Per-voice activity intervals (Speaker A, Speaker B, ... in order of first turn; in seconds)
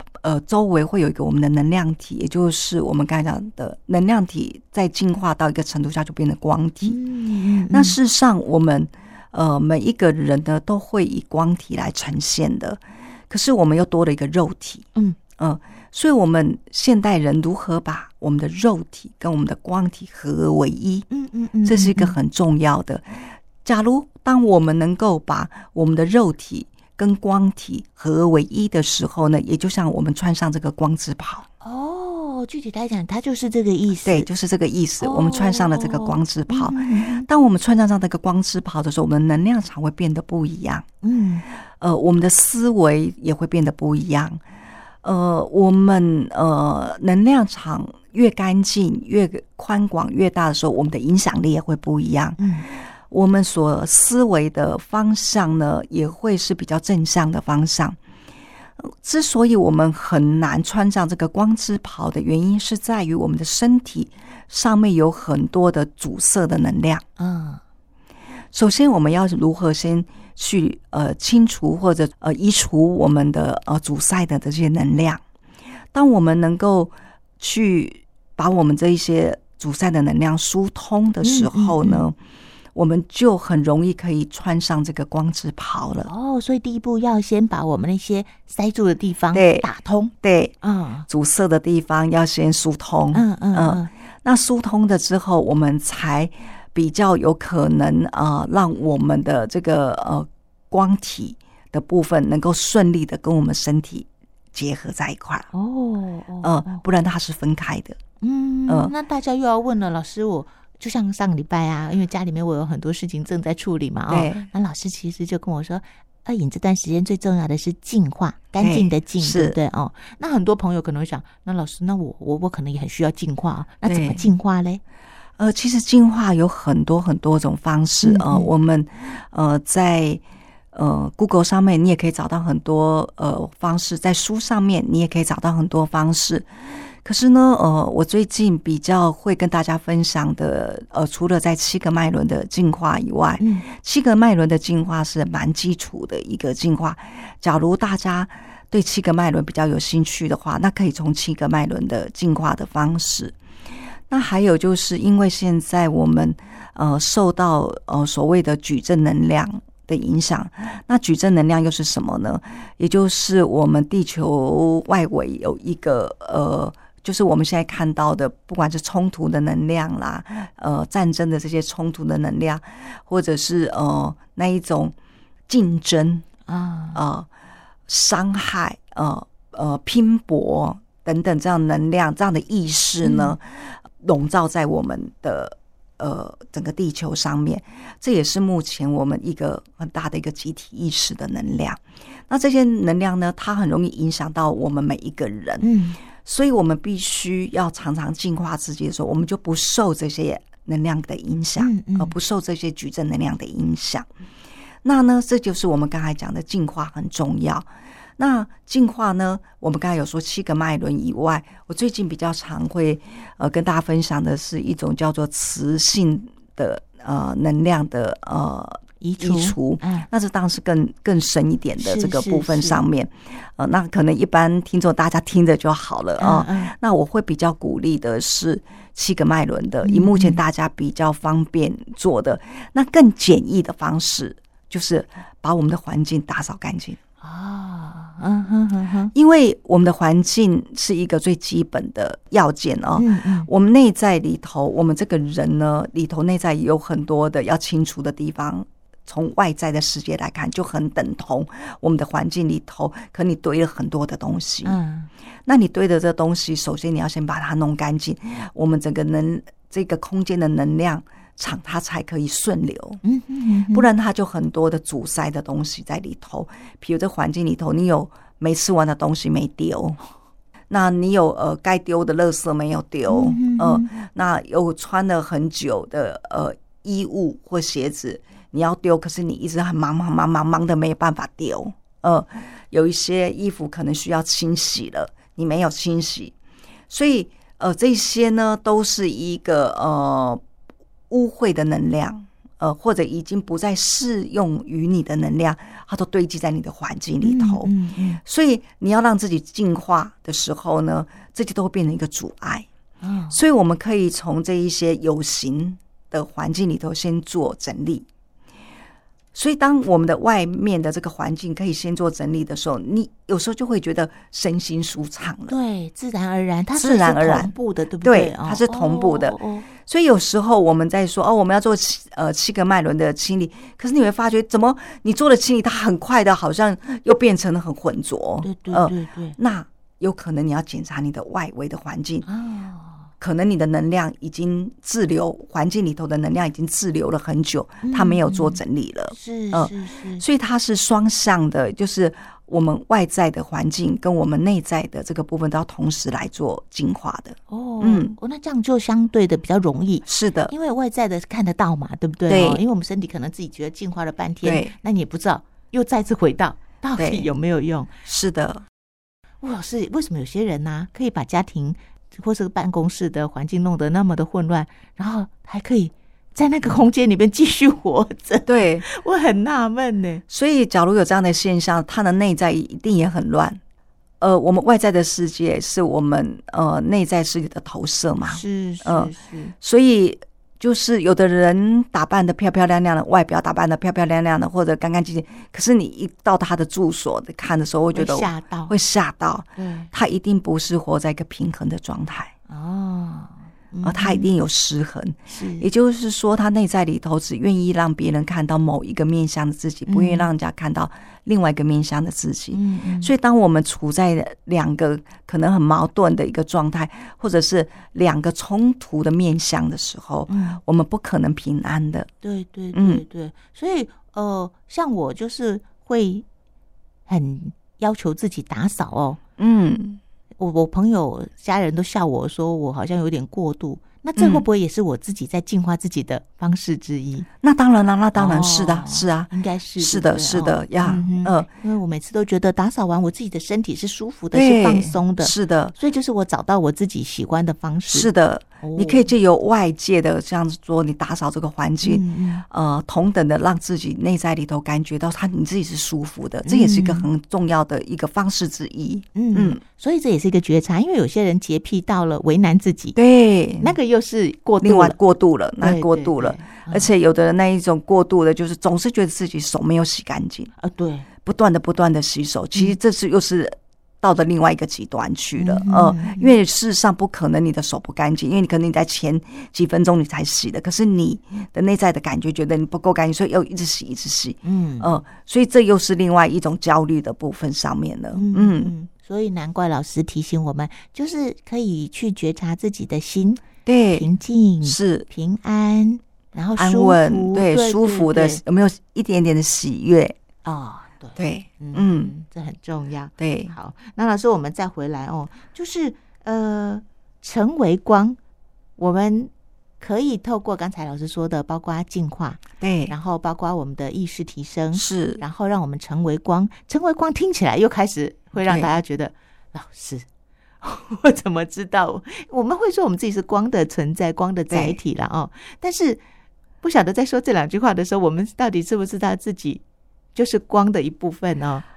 Speaker A: 0.2-7.0, 7.7-21.1, 21.6-31.4, 34.0-40.9, 41.8-44.4, 45.0-58.0, 58.8-67.0, 68.5-75.2, 75.9-82.2, 82.7-86.1, 89.3-89.7, 90.2-90.5, 91.1-105.5, 106.4-108.0, 114.1-114.5, 118.6-119.6, 123.8-124.2, 125.4-130.2, 130.7-153.3, 154.1-174.9, 175.5-176.2, 176.9-177.3, 177.9-195.7, 196.2-204.1, 204.8-237.0, 239.1-254.8, 255.5-263.0, 263.7-270.0, 270.7-286.3, 286.9-290.4, 291.1-297.7, 298.2-302.7, 303.3-308.1, 309.3-315.6, 316.8-332.2, 333.2-348.2, 350.0-350.5, 352.3-352.6, 354.4-354.7, 357.0-357.3, 358.1-358.6, 368.4-368.9, 370.3-373.6, 374.2-392.3, 393.8-412.1, 412.7-413.0, 419.4-420.0, 424.2-424.4, 427.4-431.5, 434.3-435.7, 437.9-449.6, 452.9-453.8, 454.6-460.5, 461.2-478.7, 483.6-484.1, 484.6-485.1, 486.6-490.2, 491.1-492.1, 493.2-493.5, 502.6-502.9, 504.7-505.2, 508.4-508.7, 514.5-514.8
Speaker B: 6.8-8.0, 21.1-22.2, 31.6-34.3, 35.0-37.3, 41.0-41.4, 52.4-52.7, 67.2-67.6, 81.2-82.0, 86.1-91.1, 93.1-93.9, 105.5-106.8, 108.2-124.8, 128.0-128.5, 143.4-143.6, 176.5-177.0, 183.0-183.3, 195.6-196.0, 201.6-202.1, 219.0-220.1, 221.8-222.8, 226.2-226.7, 229.8-230.4, 237.2-239.1, 243.0-243.5, 254.6-255.1, 263.0-263.9, 273.1-273.9, 297.2-298.2, 303.0-303.4, 315.5-319.7, 328.4-329.4, 332.2-333.1, 337.8-338.6, 339.1-340.2, 347.5-357.9, 359.4-370.2, 378.2-379.5, 387.9-388.7, 389.6-389.9, 392.5-394.3, 395.3-395.7, 399.9-400.3, 402.5-403.1, 410.3-410.6, 412.2-416.2, 417.1-419.2, 420.4-427.3, 428.1-438.1, 438.6-439.1, 441.8-442.4, 446.4-447.1, 449.1-452.9, 453.6-455.0, 455.6-456.9, 460.6-461.1, 465.4-466.3, 474.4-474.9, 478.1-488.4, 490.4-498.2, 498.8-510.1, 510.6-516.0, 516.6-519.6, 520.1-521.6